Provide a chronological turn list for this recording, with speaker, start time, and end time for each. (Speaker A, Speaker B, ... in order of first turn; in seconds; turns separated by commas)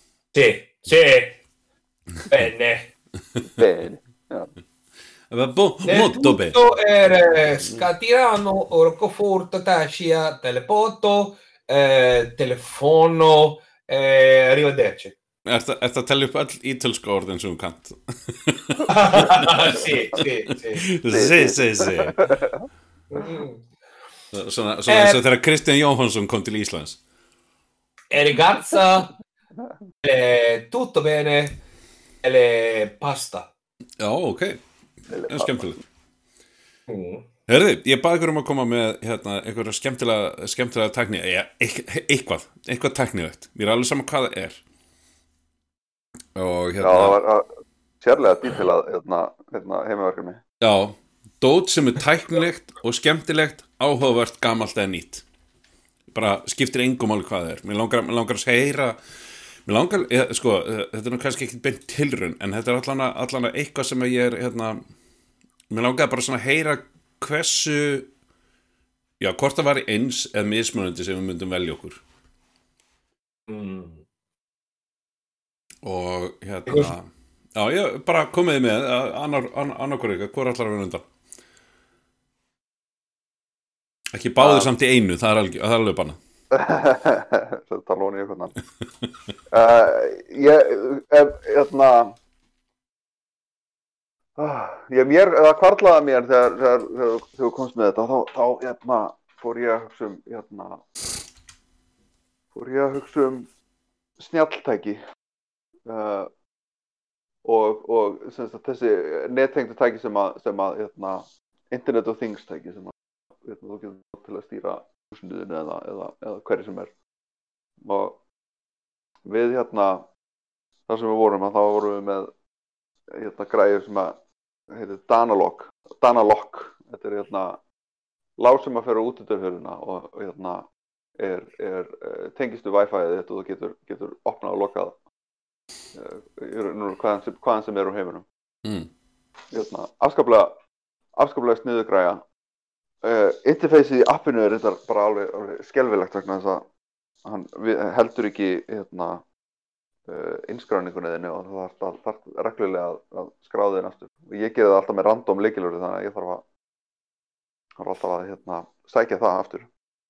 Speaker A: 0.3-1.4, Speaker A: 2.3-2.9, Speaker B: 3.5-4.5, Speaker C: 5.3-6.6, Speaker A: 5.9-15.1, Speaker C: 15.4-19.8, Speaker A: 18.9-20.9, Speaker C: 20.7-22.3, Speaker B: 21.1-22.6, Speaker A: 23.1-23.6, Speaker C: 24.3-27.0, Speaker A: 24.9-25.2, Speaker A: 28.1-29.1, Speaker A: 30.0-31.6, Speaker A: 32.2-33.5, Speaker C: 34.0-34.6, Speaker B: 35.1-35.6, Speaker C: 35.2-35.8, Speaker A: 36.9-37.2, Speaker C: 37.5-44.6, Speaker C: 46.3-47.2, Speaker B: 46.8-50.4, Speaker C: 50.6-55.2, Speaker C: 56.1-59.0, Speaker C: 59.6-64.8, Speaker C: 65.7-68.1, Speaker C: 69.2-72.0, Speaker A: 73.5-74.0, Speaker C: 75.8-81.1, Speaker A: 76.7-76.9, Speaker C: 84.1-86.2, Speaker B: 84.4-84.7, Speaker B: 86.5-88.5, Speaker B: 89.5-92.2, Speaker B: 94.4-100.8, Speaker B: 102.5-103.5, Speaker B: 104.2-105.0, Speaker B: 105.9-106.3, Speaker B: 107.4-112.9, Speaker B: 113.4-116.9, Speaker B: 117.8-118.2, Speaker B: 119.2-120.1, Speaker B: 120.9-122.3, Speaker B: 123.1-124.2, Speaker B: 124.7-127.6, Speaker B: 128.4-130.7, Speaker B: 131.2-135.0, Speaker B: 135.9-138.2, Speaker C: 138.6-138.9, Speaker B: 139.5-140.5, Speaker B: 141.2-142.2, Speaker B: 143.0-146.7, Speaker B: 147.2-149.2, Speaker B: 150.1-156.4, Speaker B: 157.8-159.7